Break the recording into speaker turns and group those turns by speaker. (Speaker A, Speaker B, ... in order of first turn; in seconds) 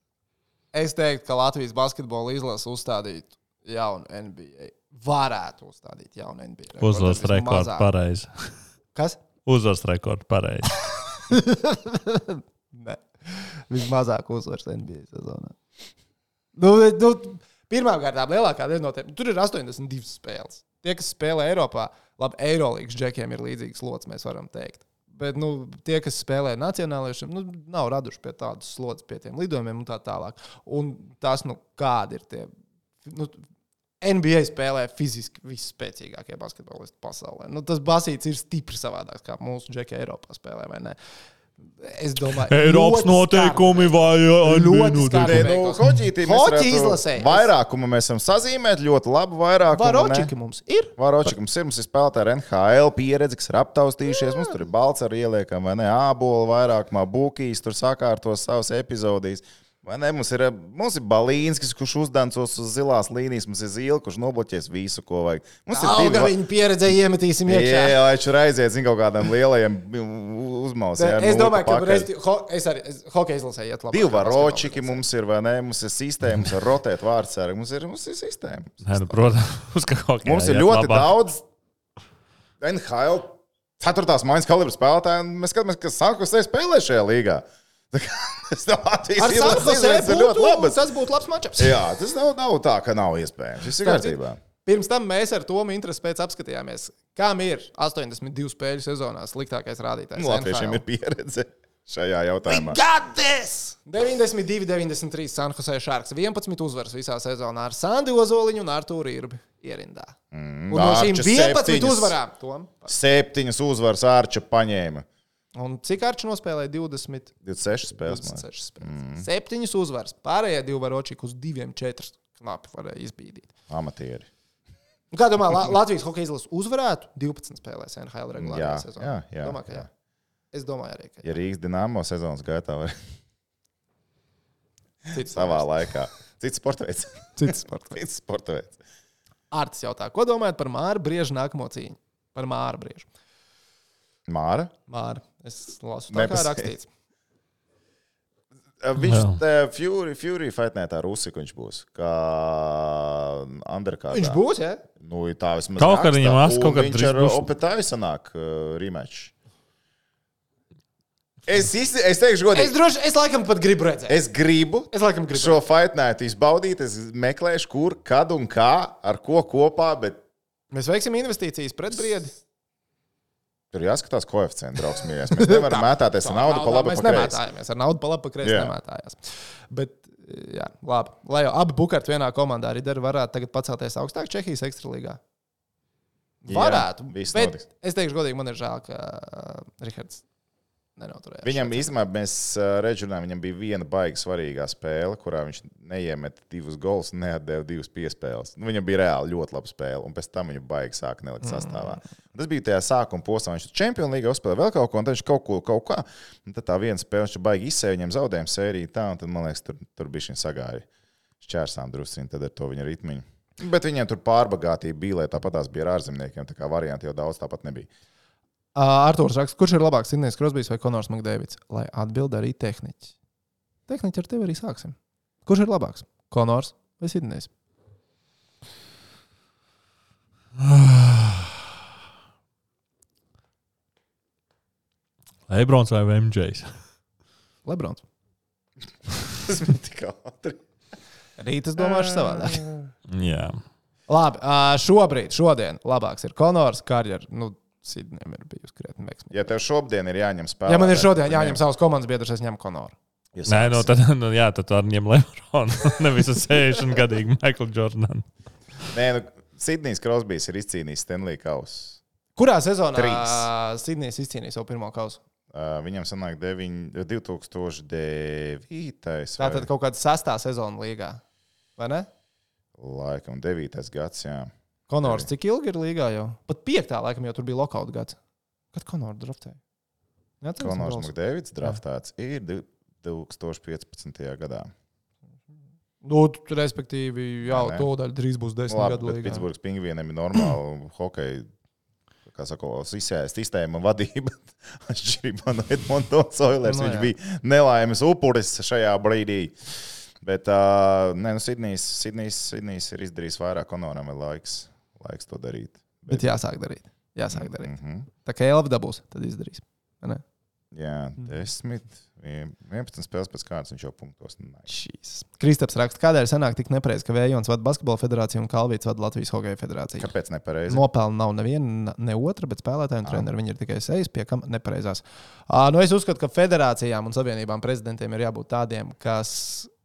Speaker A: 0.7-7.9, 8.9-9.2, 11.3-15.6, 16.6-32.5, 33.0-33.4, 34.0-41.0, 41.8-47.5, 49.7-51.3, 65.7-68.0, 71.0-75.0, 89.2-91.8, 93.8-100.8, 102.4-110.1, 110.7-112.9, 115.5-117.3, 118.0-123.5, 125.1-129.9, 130.5-131.3, 135.1-135.7, 137.3-138.0, 139.5-143.1, 144.9-146.9, 154.1-154.8, 162.5-164.2, 164.9-165.6, 170.7-172.3, 175.3-185.2, 186.4-190.2, 191.0-191.9, 201.4-202.0, 218.7-223.1, 223.9-227.5, 237.7-238.0, 241.4-242.6, 244.1-249.4, 250.7-252.9, 262.4-265.2, 269.4-271.2, 271.8-272.1, 274.9-278.2, 278.7-279.6, 280.4-281.1, 286.0-289.4, 296.6-297.1, 306.1-310.2, 314.7-320.1, 320.7-329.7
Speaker B: 6.8-8.5, 9.4-10.8, 42.5-45.9, 78.8-81.1, 149.0-149.4, 155.8-157.4, 230.6-231.5, 235.5-236.7, 243.1-243.6, 253.5-258.2
Speaker C: 45.2-50.3, 51.0-66.3, 67.5-72.1, 73.9-79.2, 80.2-81.4, 82.6-90.8, 91.6-94.4, 100.2-102.8, 110.3-112.2, 112.9-115.0, 117.4-119.2, 123.7-124.3, 128.4-129.9, 131.2-132.9, 135.2-138.8, 144.3-144.7, 146.1-146.7, 148.8-154.4, 155.0-159.3, 161.4-162.7, 164.1-170.2, 173.7-177.4, 178.4-178.7, 186.5-187.6, 191.4-210.8, 211.4-217.9, 239.3-240.6, 241.8-242.8, 249.3-251.6, 253.3-253.9, 258.9-262.0, 262.9-263.5, 265.5-269.7, 272.8-274.5, 275.0-275.3, 280.6-284.7, 287.5-287.9, 288.7-291.5, 292.3-306.3, 307.3-308.1, 310.7-314.7, 320.0-320.8